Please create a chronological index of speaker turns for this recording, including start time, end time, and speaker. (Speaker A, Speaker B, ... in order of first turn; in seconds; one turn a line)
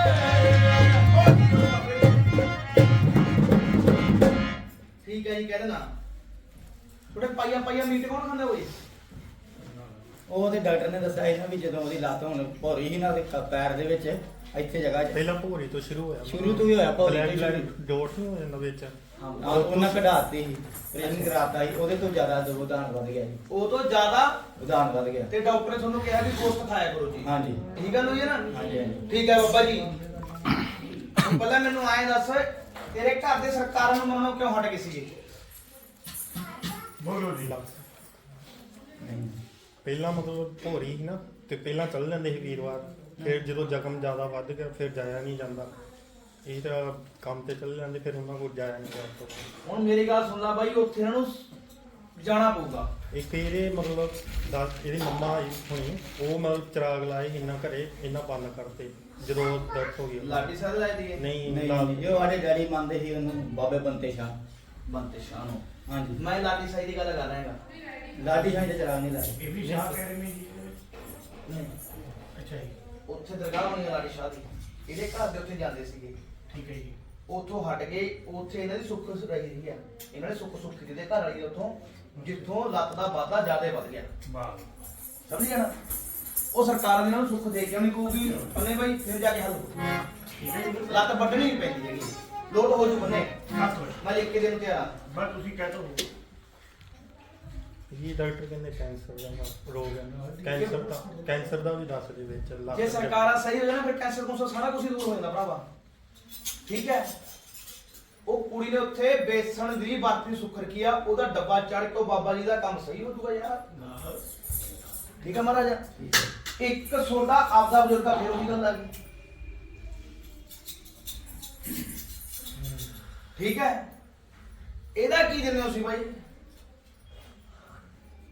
Speaker A: 1.0-2.1
Speaker B: 5.0-5.9
Speaker B: 7.1-8.8
Speaker C: 10.3-15.2
Speaker D: 15.1-20.1
Speaker C: 16.2-17.7
Speaker C: 19.2-23.4
Speaker B: 23.5-24.4
Speaker C: 24.6-25.3
Speaker B: 25.3-28.4
Speaker C: 27.2-27.6
Speaker C: 28.5-29.0
Speaker B: 29.1-29.9
Speaker B: 31.2-35.1
Speaker A: 37.0-37.5
Speaker D: 37.4-37.8
Speaker C: 39.0-39.4
Speaker D: 39.8-45.7
Speaker D: 46.4-49.5
Speaker B: 49.6-51.4
Speaker B: 52.1-52.9
Speaker D: 53.1-60.5
Speaker B: 60.2-61.2
Speaker D: 61.1-62.1
Speaker C: 61.5-64.4
Speaker B: 64.9-65.6
Speaker C: 65.9-66.2
Speaker B: 66.2-67.6
Speaker C: 68.2-69.4
Speaker A: 69.4-70.8
Speaker D: 69.6-70.0
Speaker B: 71.5-71.7
Speaker A: 72.3-72.8
Speaker B: 73.1-76.2
Speaker A: 76.5-77.0
Speaker B: 77.3-84.1
Speaker A: 82.1-82.4
Speaker A: 84.2-84.7
Speaker B: 85.3-85.7
Speaker B: 86.5-89.8
Speaker A: 90.3-91.2
Speaker B: 90.9-93.3
Speaker A: 93.5-94.0
Speaker B: 94.0-95.0
Speaker A: 95.1-96.1
Speaker D: 97.9-103.3
Speaker A: 100.1-101.2
Speaker B: 102.7-105.6
Speaker B: 106.7-107.1
Speaker B: 108.2-113.6
Speaker A: 113.7-114.2
Speaker B: 115.2-115.8
Speaker C: 116.0-116.3
Speaker B: 116.6-118.9
Speaker B: 123.3-123.8
Speaker B: 124.9-126.1